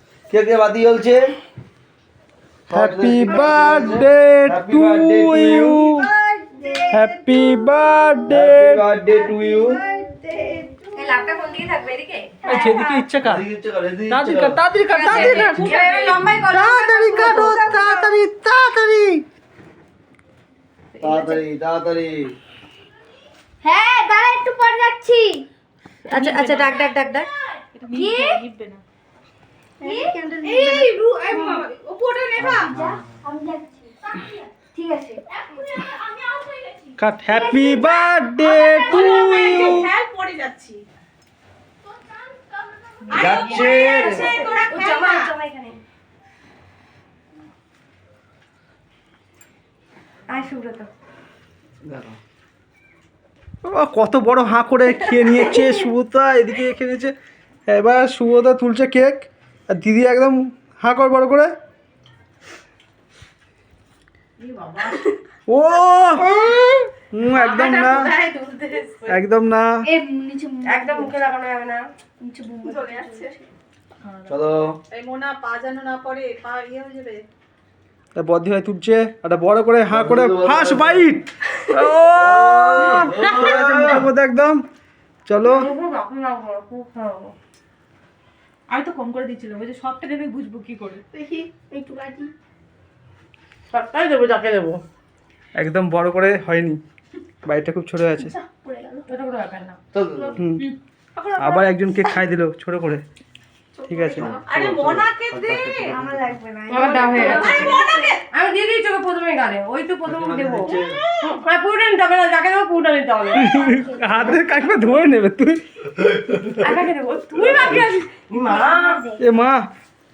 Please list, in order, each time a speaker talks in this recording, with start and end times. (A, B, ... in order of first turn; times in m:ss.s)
0:00.3-0:01.3 A
0:02.7-0:06.2 A
0:02.7-0:06.1 B
0:06.0-0:07.0 C
0:06.9-0:08.8 B
0:08.3-0:09.8 A
0:09.1-0:10.9 C
0:10.9-0:13.0 D
0:12.4-0:13.0 C
0:12.4-0:13.5 B
0:13.2-0:14.6 A
0:14.1-0:15.8 B
0:14.9-0:18.0 D
0:15.1-0:16.2 E
0:16.5-0:19.2 B
0:21.0-0:21.4 D
0:21.0-0:22.3 A
0:23.6-0:25.5 C
0:26.0-0:27.3 D
0:26.1-0:26.8 E
0:27.8-0:28.8 E
0:27.9-0:28.4 C
0:29.8-0:31.7 C
0:29.8-0:30.1 D
0:30.4-0:32.8 E
0:32.4-0:33.2 A
0:32.4-0:35.9 C
0:35.8-0:36.8 E
0:37.0-0:39.9 B
0:37.3-0:38.1 C
0:38.4-0:40.8 E
0:43.0-0:45.3 E
0:43.1-0:44.3 A
0:43.7-0:45.8 D
0:50.3-0:50.9 D
0:51.8-0:52.2 A
0:53.7-0:57.1 B
0:55.2-0:55.8 D
0:57.7-1:01.5 B
1:04.4-1:05.2 E
1:05.5-1:06.4 B
1:07.1-1:08.1 B
1:07.3-1:09.2 E
1:09.1-1:09.7 B
1:09.8-1:11.1 C
1:10.6-1:11.8 D
1:12.2-1:13.4 C
1:12.7-1:13.3 E
1:14.0-1:14.4 E
1:14.3-1:14.8 A
1:14.9-1:17.2 E
1:18.2-1:24.6 B
1:19.9-1:21.1 A
1:22.1-1:24.1 A
1:22.9-1:23.5 E
1:25.3-1:25.7 B
1:25.4-1:27.3 D
1:28.7-1:31.0 E
1:31.1-1:32.3 C
1:33.7-1:34.8 D
1:35.6-1:36.8 B
1:37.5-1:38.4 B
1:38.3-1:39.1 C
1:39.1-1:39.8 D
1:39.9-1:40.4 A
1:40.4-1:40.6 B
1:41.2-1:41.7 C
1:41.4-1:43.0 B
1:43.9-1:44.4 C
1:43.9-1:44.3 B
1:44.2-1:46.3 A
1:44.5-1:46.0 E
1:45.9-1:48.1 C
1:46.7-1:53.6 D
1:46.7-1:48.2 E
1:50.0-1:51.0 A
1:53.4-1:54.4 C
1:53.4-1:55.6 B
1:56.6-1:59.0 D
1:57.6-1:59.2 C
1:59.2-1:59.7 B